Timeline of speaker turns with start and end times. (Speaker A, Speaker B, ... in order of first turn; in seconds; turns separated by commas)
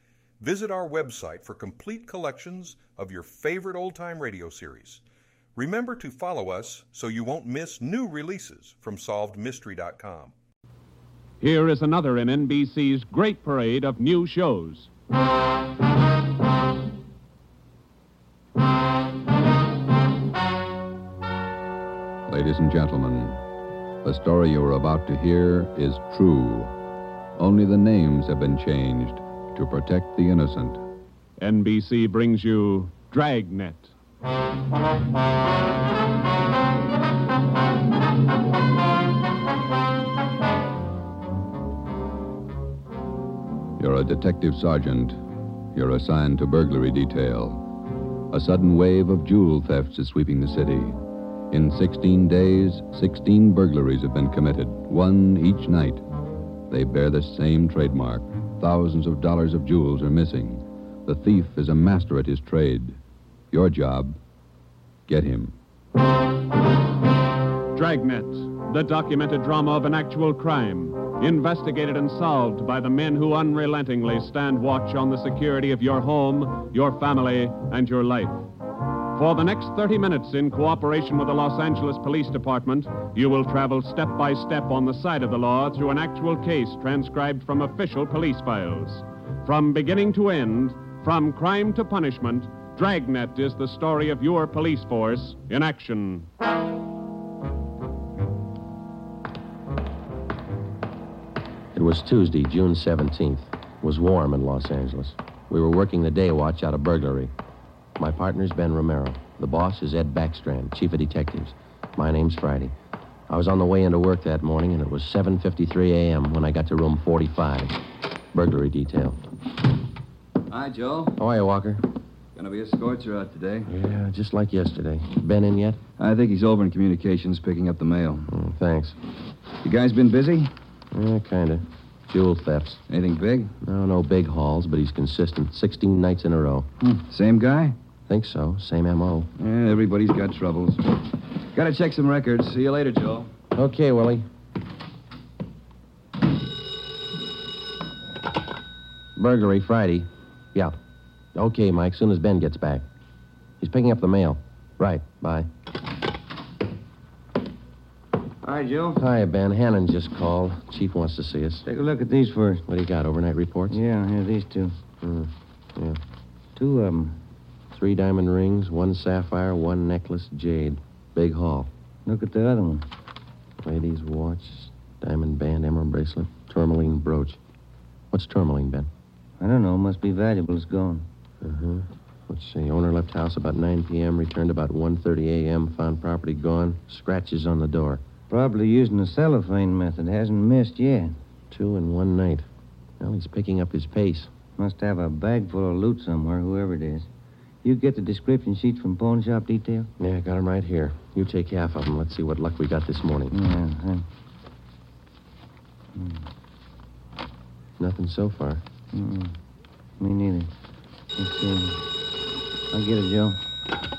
Speaker A: 0.4-5.0, Speaker A: 5.6-10.3, Speaker B: 11.4-14.9, Speaker C: 22.3-23.4, Speaker C: 24.0-26.7, Speaker C: 27.4-30.8, Speaker B: 31.4-33.9, Speaker C: 43.8-45.2, Speaker C: 45.7-47.6, Speaker C: 48.3-51.0, Speaker C: 51.5-56.0, Speaker C: 56.7-63.0, Speaker C: 63.5-64.2, Speaker C: 65.1-65.5, Speaker B: 67.7-78.4, Speaker B: 79.2-96.3, Speaker D: 101.7-107.3, Speaker D: 108.0-112.7, Speaker D: 113.3-117.8, Speaker D: 118.3-119.2, Speaker E: 120.5-121.1, Speaker D: 121.2-121.9, Speaker E: 122.4-123.7, Speaker D: 123.7-125.8, Speaker E: 126.0-128.3, Speaker D: 128.3-129.0, Speaker E: 129.6-130.5, Speaker D: 130.9-132.8, Speaker E: 132.9-133.5, Speaker D: 133.6-136.7, Speaker E: 136.8-137.8, Speaker D: 138.1-139.3, Speaker E: 139.4-140.9, Speaker E: 141.5-143.3, Speaker D: 143.5-144.3, Speaker D: 149.2-150.7, Speaker D: 151.3-152.8, Speaker D: 153.6-155.5, Speaker F: 158.4-159.0, Speaker D: 159.0-161.7, Speaker F: 161.6-162.7, Speaker D: 162.7-163.8, Speaker F: 163.7-164.8, Speaker D: 165.0-166.0, Speaker F: 166.6-167.2, Speaker D: 167.7-171.7, Speaker F: 172.1-172.9, Speaker D: 173.6-177.4, Speaker D: 178.1-178.9, Speaker F: 179.4-181.1, Speaker D: 181.4-188.0, Speaker F: 188.3-191.2, Speaker D: 191.5-192.5, Speaker D: 193.0-194.3, Speaker F: 194.6-197.1, Speaker F: 197.6-199.9, Speaker D: 200.0-203.3, Speaker F: 203.3-204.1, Speaker F: 206.0-206.2, Speaker D: 207.8-208.6, Speaker F: 208.9-209.4, Speaker F: 210.0-210.5, Speaker F: 211.2-211.8, Speaker F: 212.7-213.4